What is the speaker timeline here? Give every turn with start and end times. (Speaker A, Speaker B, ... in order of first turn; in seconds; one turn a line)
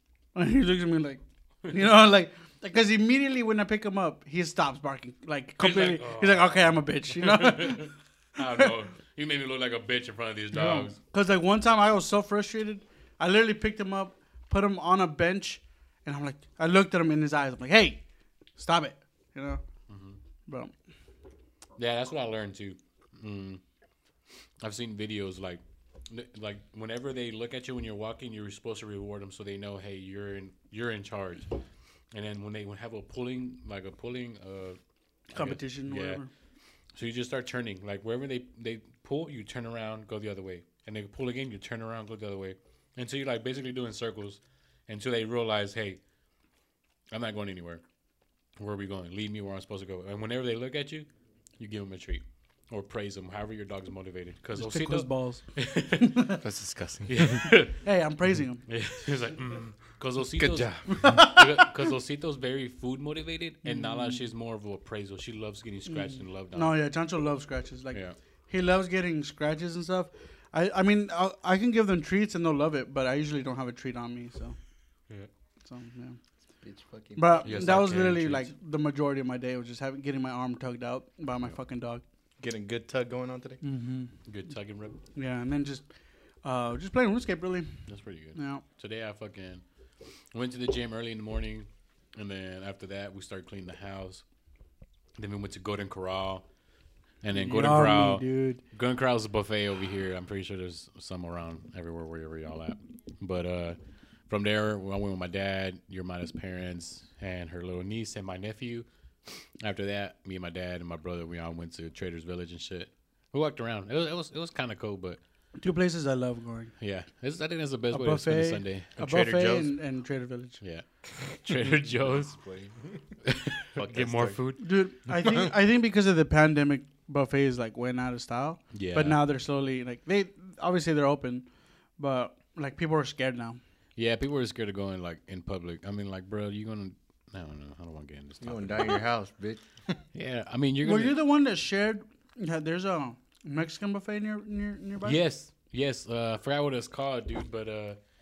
Speaker A: 0.3-7.9
Speaker B: 5.6-10.9
Speaker A: 10.5-18.0
Speaker A: 18.6-19.6
Speaker B: 19.9-20.2
Speaker A: 20.5-20.7
Speaker B: 21.8-23.6
Speaker B: 24.6-31.5
Speaker B: 32.1-34.8
Speaker B: 35.3-36.2
Speaker A: 35.3-36.3
Speaker B: 36.9-46.0
Speaker B: 47.1-47.8
Speaker B: 48.6-51.1
Speaker B: 51.6-56.3
Speaker A: 54.5-55.4
Speaker A: 56.0-56.4
Speaker C: 56.4-57.5
Speaker B: 57.1-57.8
Speaker A: 57.8-58.6
Speaker B: 58.7-66.8
Speaker C: 60.4-60.8
Speaker A: 60.9-61.5
Speaker A: 63.6-64.2
Speaker A: 66.5-74.5
Speaker A: 75.6-76.2
Speaker C: 76.6-77.5
Speaker A: 77.2-82.0
Speaker B: 77.4-78.5
Speaker C: 82.4-83.6
Speaker A: 83.6-84.1
Speaker B: 84.2-85.0
Speaker A: 85.1-85.8
Speaker A: 86.4-87.8
Speaker B: 87.9-89.6
Speaker A: 88.3-88.6
Speaker B: 90.3-94.2
Speaker B: 95.2-96.4
Speaker B: 97.2-103.8
Speaker A: 97.3-98.6
Speaker B: 104.3-108.8
Speaker B: 109.6-115.2
Speaker A: 115.6-116.7
Speaker B: 116.8-118.9
Speaker A: 117.9-120.6
Speaker C: 119.0-119.7
Speaker B: 120.6-122.3
Speaker C: 122.3-123.0
Speaker B: 123.3-124.6
Speaker C: 123.7-124.4
Speaker A: 124.6-131.4
Speaker B: 128.7-129.2
Speaker A: 132.0-133.6
Speaker B: 133.9-139.0
Speaker C: 138.4-140.0
Speaker B: 140.1-141.2
Speaker A: 140.8-145.2
Speaker B: 145.0-148.0